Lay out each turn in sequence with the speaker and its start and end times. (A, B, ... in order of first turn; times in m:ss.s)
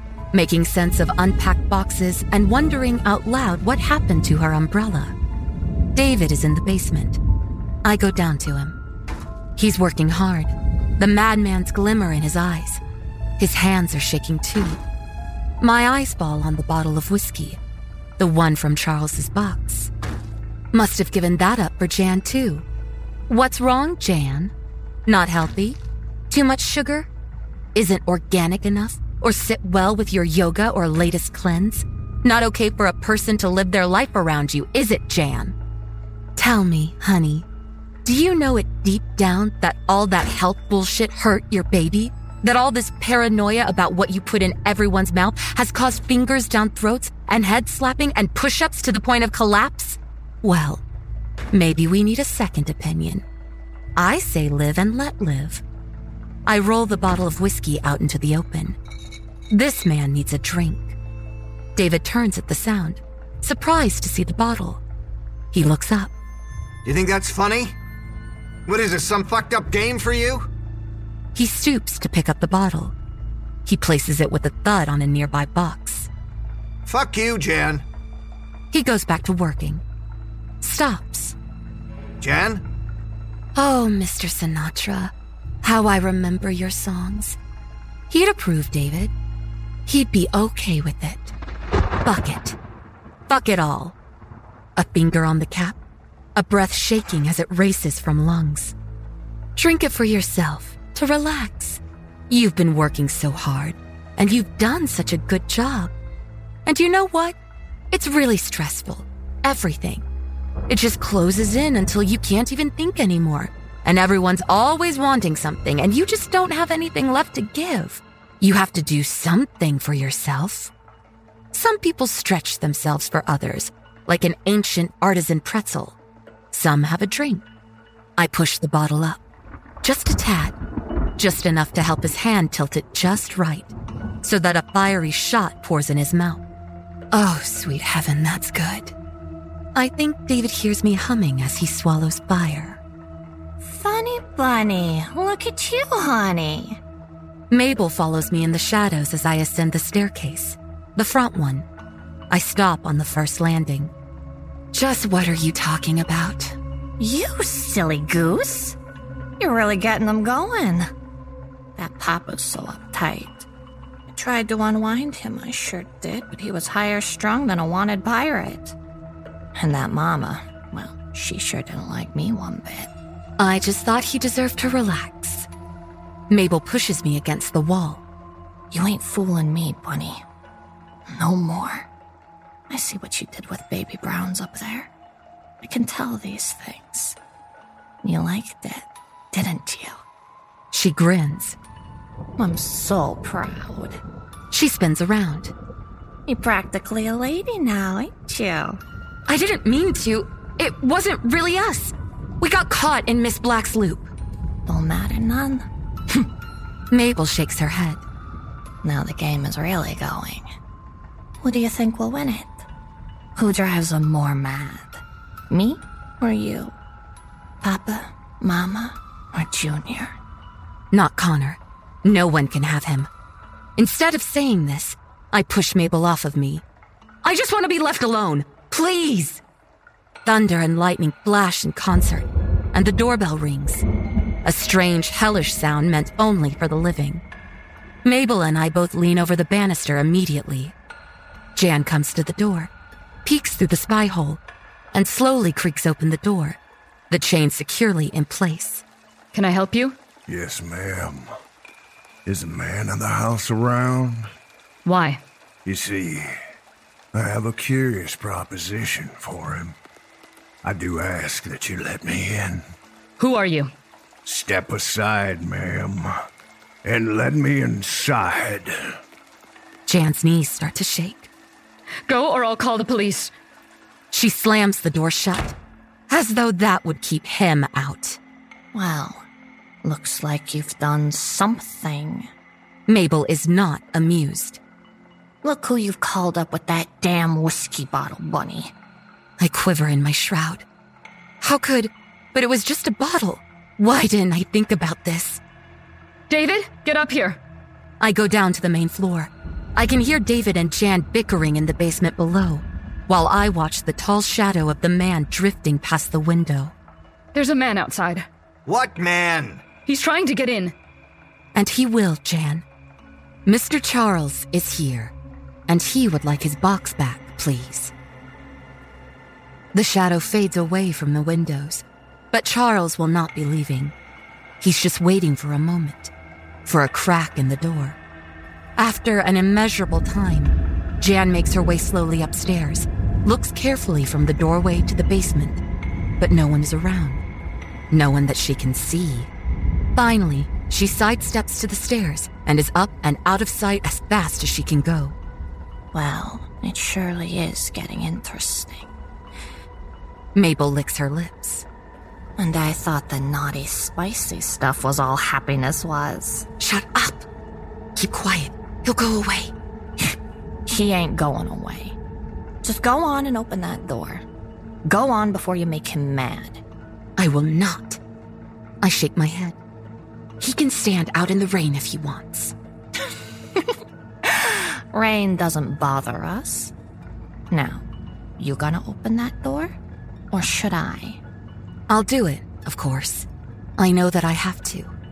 0:00.3-0:05.1 A
0:05.9-0:07.2 A
0:07.8-0:08.8 A
0:09.6-0:12.8 A
0:13.4-0:14.8 A
0:15.6-0:17.6 A
0:18.2-0:19.9 A
0:20.7-0:22.6 A
0:23.3-0:24.5 A
0:25.0-0:25.8 A
0:26.3-0:27.1 A
0:27.7-0:35.5 A
0:36.4-0:37.4 A
0:38.0-0:50.8 A
0:51.5-0:53.2 A
0:54.0-0:55.6 A
0:56.4-0:58.8 A
0:59.5-1:01.0 A
1:01.8-1:04.8 A
1:05.5-1:06.1 A
1:06.8-1:07.8 B
1:08.7-1:10.5 B
1:11.3-1:12.9 A
1:13.6-1:16.1 A
1:16.8-1:17.8 B
1:18.7-1:19.8 A
1:20.6-1:21.4 A
1:22.2-1:22.6 B
1:23.5-1:27.4 A
1:28.1-1:29.1 A
1:29.9-1:31.3 A
1:32.0-1:32.6 A
1:33.3-1:34.0 A
1:34.8-1:35.8 A
1:36.3-1:38.7 A
1:39.6-1:45.9 A
1:46.6-1:47.4 A
1:47.9-1:50.0 A
1:50.7-2:00.7 A
2:01.5-2:06.0 A
2:06.5-2:07.4 A
2:08.2-2:09.2 A
2:09.8-2:10.6 A
2:11.2-2:16.4 A
2:17.1-2:18.9 A
2:19.7-2:22.8 A
2:23.6-2:26.8 C
2:27.5-2:31.6 A
2:32.3-2:33.9 A
2:34.7-2:36.6 A
2:37.0-2:38.8 C
2:39.4-2:40.9 C
2:41.8-2:43.5 C
2:44.1-2:48.7 C
2:49.6-2:52.9 C
2:53.4-2:55.5 A
2:56.3-2:58.0 A
2:58.7-3:00.2 C
3:01.1-3:01.9 C
3:02.7-3:04.9 C
3:05.6-3:07.2 C
3:08.0-3:10.0 C
3:10.7-3:11.6 A
3:12.4-3:14.0 C
3:14.5-3:15.5 A
3:16.3-3:18.8 C
3:19.3-3:24.1 A
3:24.7-3:25.6 C
3:26.9-3:28.0 A
3:28.8-3:30.4 C
3:31.4-3:32.6 C
3:33.4-3:36.7 C
3:37.6-3:40.2 C
3:40.9-3:43.1 A
3:43.8-3:46.6 A
3:47.2-3:49.4 A
3:50.2-3:53.8 A
3:54.4-3:57.2 A
3:58.0-4:00.7 A
4:01.6-4:02.7 A
4:03.2-4:04.4 A
4:04.9-4:06.6 A
4:07.1-4:08.8 A
4:09.3-4:10.0 D
4:10.3-4:11.2 E
4:12.2-4:14.2 E
4:14.8-4:15.2 D
4:15.6-4:16.3 E
4:17.1-4:19.7 E
4:20.6-4:22.6 E
4:23.2-4:23.7 D
4:24.2-4:26.1 E
4:26.8-4:28.7 E
4:29.9-4:31.3 A
4:32.1-4:33.3 D
4:34.1-4:35.5 A
4:36.1-4:38.2 A
4:38.7-4:39.2 C
4:39.8-4:42.3 C
4:42.9-4:44.6 A
4:45.4-4:48.7 C
4:49.4-4:50.6 A
4:51.4-4:55.4 A
4:56.3-4:57.4 D
4:58.0-5:06.7 A
5:07.3-5:08.2 D
5:08.6-5:09.6 B
5:09.8-5:10.7 D
5:11.5-5:12.6 A
5:13.4-5:15.1 A
5:15.7-5:17.9 A
5:19.7-5:23.9 A
5:24.6-5:26.1 A
5:26.6-5:28.0 A
5:28.8-5:35.6 A
5:36.2-5:37.2 A
5:37.9-5:39.3 A
5:39.9-5:45.2 A
5:45.9-5:48.9 C
5:50.3-5:51.6 A
5:52.4-5:56.5 C
5:56.6-5:57.3 A
5:58.0-5:59.5 A
6:00.7-6:02.0 C
6:02.6-6:04.2 C
6:04.8-6:06.6 C
6:07.2-6:08.0 A
6:08.8-6:09.6 A
6:10.4-6:12.5 A
6:14.3-6:16.7 C
6:17.5-6:17.8 C
6:18.4-6:19.8 C
6:20.3-6:21.2 C
6:21.9-6:24.9 A